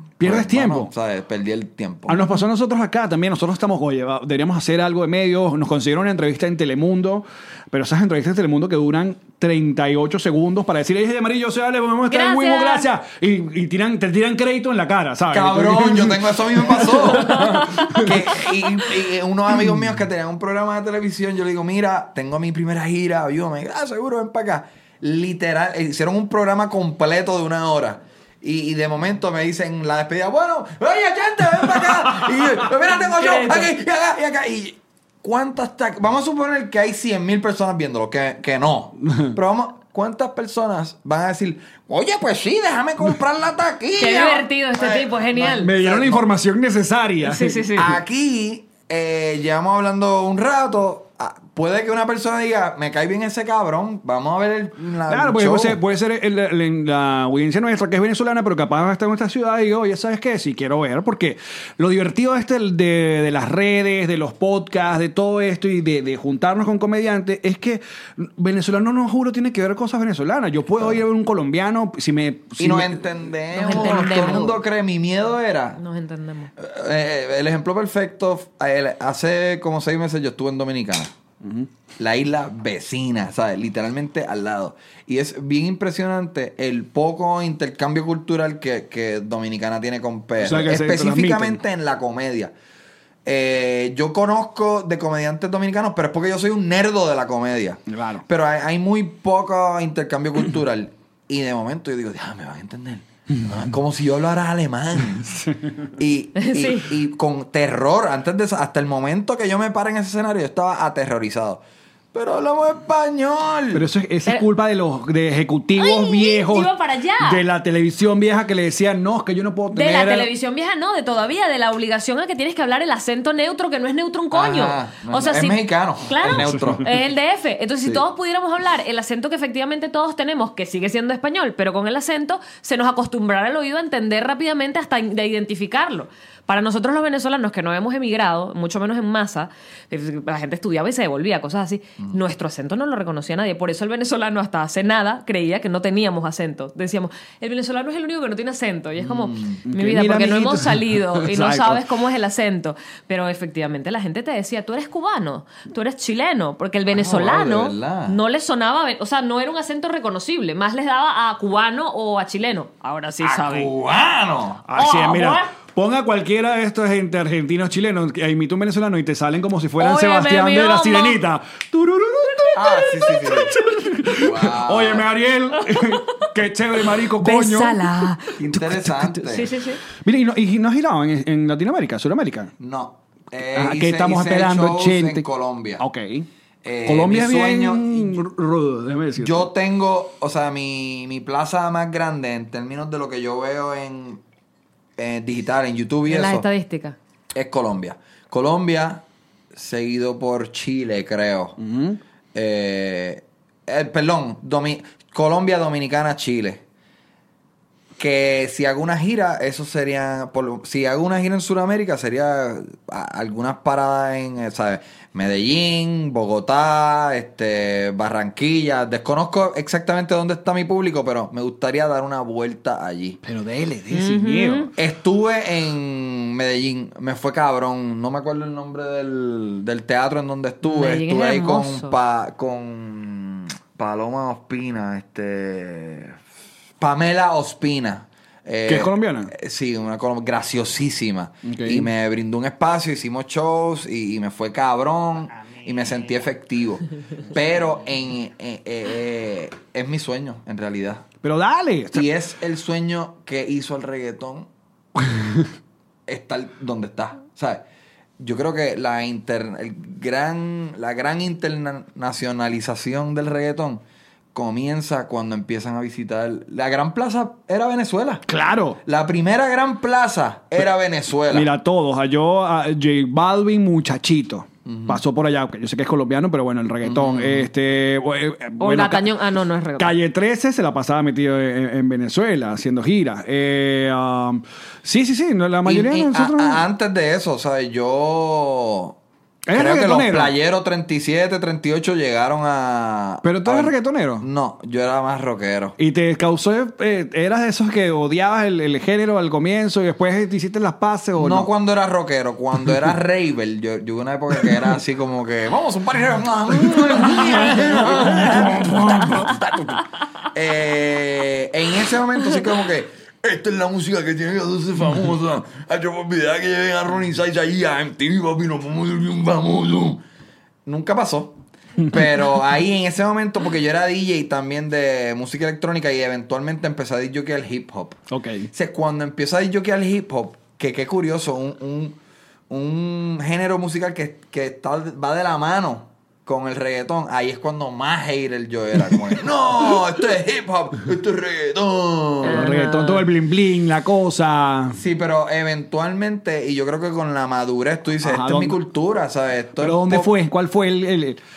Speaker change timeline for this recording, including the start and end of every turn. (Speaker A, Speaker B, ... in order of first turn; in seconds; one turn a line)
Speaker A: 0.2-0.9
Speaker B: 0.2-2.3
Speaker A: 2.1-18.1
Speaker C: 12.1-12.9
Speaker B: 15.3-46.3
Speaker C: 17.3-17.7
Speaker C: 44.0-45.7
Speaker A: 45.6-47.7
Speaker C: 47.2-47.9
Speaker B: 47.8-55.8
Speaker A: 55.1-73.0
Speaker B: 72.6-75.8
Speaker C: 73.5-74.6
Speaker A: 73.8-74.3
Speaker C: 75.8-76.5
Speaker B: 76.6-81.2
Speaker A: 81.4-81.7
Speaker B: 82.0-92.5
Speaker A: 90.4-91.6
Speaker B: 93.2-111.6
Speaker A: 97.9-98.2
Speaker C: 106.3-106.9
Speaker B: 112.1-113.9
Speaker A: 113.7-120.3
Speaker C: 115.8-117.4
Speaker C: 119.7-163.7
Speaker B: 124.3-126.8
Speaker A: 126.3-126.7
Speaker B: 149.0-149.6
Speaker A: 149.7-151.8
Speaker B: 156.9-158.2
Speaker B: 163.2-164.6
Speaker A: 164.7-178.1
Speaker C: 164.8-165.5
Speaker C: 169.8-171.2
Speaker B: 172.5-173.5
Speaker B: 174.1-175.1
Speaker C: 175.7-176.2
Speaker C: 177.2-178.3
Speaker B: 178.4-179.5
Speaker C: 179.2-179.8
Speaker A: 180.0-182.5
Speaker B: 182.6-185.8
Speaker A: 183.5-185.2
Speaker A: 185.8-186.3
Speaker B: 186.6-188.2
Speaker A: 186.8-189.5
Speaker B: 189.2-194.2
Speaker B: 195.0-196.4
Speaker C: 196.1-197.0
Speaker B: 197.3-201.6
Speaker A: 201.6-202.0
Speaker B: 202.3-206.6
Speaker B: 208.0-223.2
Speaker A: 223.2-224.7
Speaker C: 223.9-224.7
Speaker B: 224.8-236.2
Speaker C: 230.6-231.9
Speaker B: 236.8-251.1
Speaker A: 238.7-239.3
Speaker A: 241.4-241.9
Speaker A: 251.2-252.1
Speaker B: 251.9-254.5
Speaker A: 255.1-255.4
Speaker B: 256.1-257.6
Speaker B: 258.2-263.8
Speaker B: 264.3-268.2
Speaker A: 268.3-268.8
Speaker B: 268.8-271.5
Speaker A: 271.3-279.1
Speaker B: 274.6-275.0
Speaker B: 276.8-277.5
Speaker C: 278.6-279.9
Speaker A: 279.8-286.6
Speaker B: 285.6-289.0
Speaker A: 289.4-290.3
Speaker B: 289.5-295.8
Speaker A: 293.2-294.2
Speaker A: 295.8-301.5
Speaker B: 301.1-320.0
Speaker A: 307.8-309.3
Speaker B: 320.6-332.0
Speaker A: 328.1-328.5
Speaker B: 332.5-342.4
Speaker C: 342.2-343.1
Speaker A: 342.3-344.8
Speaker B: 344.7-350.1
Speaker A: 348.0-348.6
Speaker A: 349.6-351.2